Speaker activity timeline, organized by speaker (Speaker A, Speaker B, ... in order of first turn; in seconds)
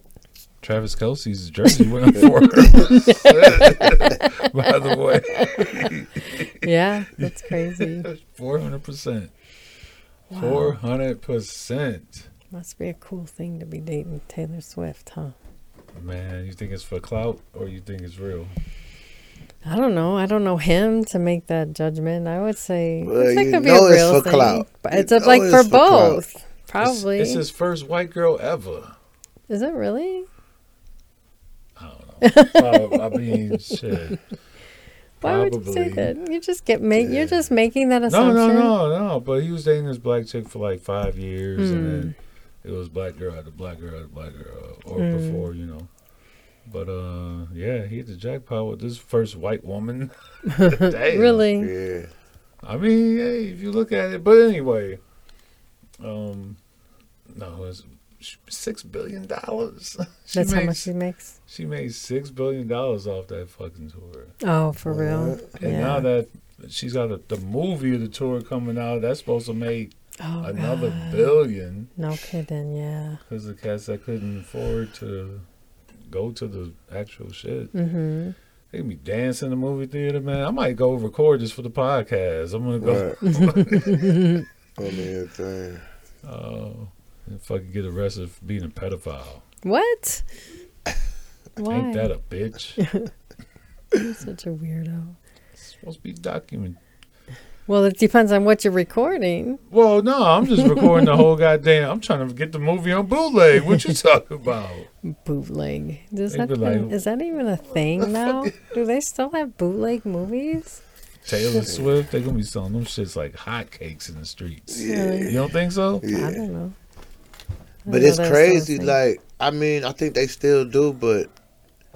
Speaker A: 0.6-6.7, 7.2-9.3, 10.3-12.3, 15.9-18.5, 26.8-28.9, 31.8-34.2, 35.2-36.1, 38.1-45.9, 46.6-51.5, 52.6-55.0, 56.0-56.6, 57.3-60.9, 61.5-64.3, 65.6-71.9, 73.3-75.4, 76.1-77.7, 78.7-84.1, 86.2-89.4, 91.7-92.8, 95.6-96.8, 99.7-104.9, 106.3-107.0, 108.0-108.6, 111.2-116.1
Speaker B: 1.8-4.7, 5.3-8.1, 10.3-10.8, 12.5-15.3, 19.6-27.4, 29.5-30.3, 32.2-33.8, 35.2-38.7, 41.6-42.1, 45.0-45.5, 50.5-51.7, 60.3-61.3, 64.4-66.1, 70.2-71.4, 72.0-73.2, 77.7-78.3, 83.2-84.5, 89.6-90.2, 91.6-92.1, 92.8-93.1, 93.9-95.2, 97.7-99.6, 100.6-101.2, 105.0-110.8, 114.8-115.4, 116.0-116.8, 117.8-119.0
Speaker C: 23.0-26.2, 36.9-37.4, 51.6-52.1, 64.9-65.5, 82.8-83.2, 84.8-85.8, 111.5-112.0, 114.7-115.5, 116.0-116.4, 117.9-121.3